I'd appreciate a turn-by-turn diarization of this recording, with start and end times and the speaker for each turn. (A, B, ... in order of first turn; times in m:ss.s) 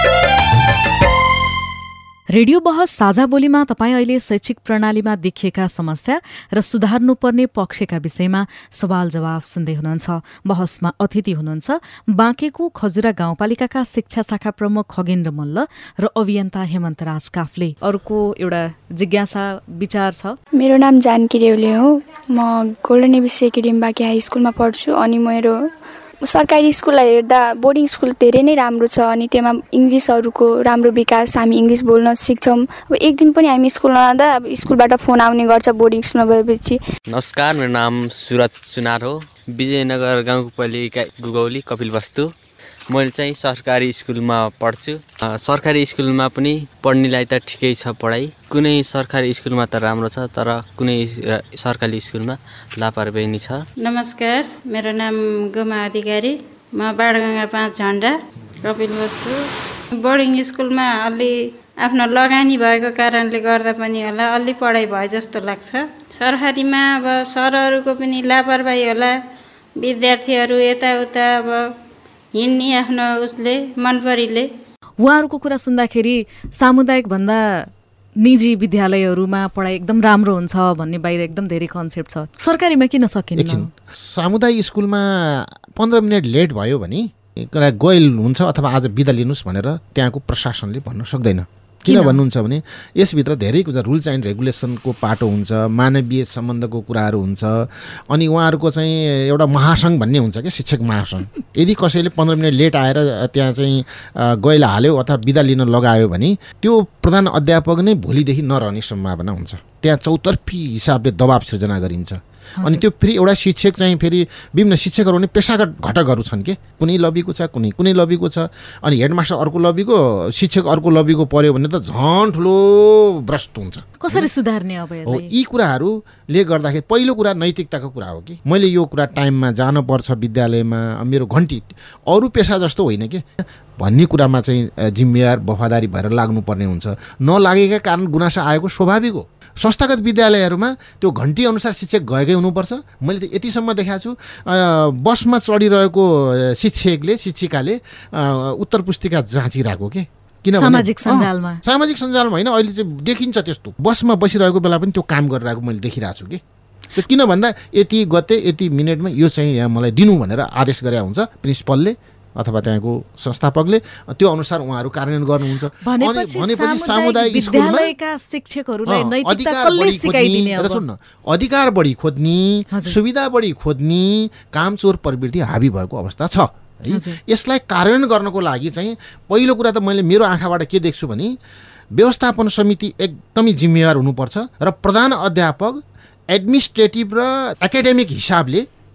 0:02.3-0:20.4 A
0:20.6-0:25.6 B
0:26.2-0:36.8 B
0:37.1-0:42.3 C
0:42.9-0:53.6 C
0:53.8-1:09.2 D
1:09.8-1:11.7 D
1:12.3-1:14.5 D
1:15.0-1:17.7 A
1:18.2-1:23.7 A
1:23.4-2:04.3 E
1:31.9-1:32.2 A
1:52.6-1:52.8 A
2:04.0-2:05.3 A
2:05.0-2:36.4 E
2:30.5-2:31.6 A
2:37.0-2:47.9 E
2:45.8-2:50.8 A
2:48.9-3:01.3 E
2:52.7-2:53.0 A
2:56.9-2:57.2 A
3:02.0-3:05.8 E
3:06.3-3:08.7 E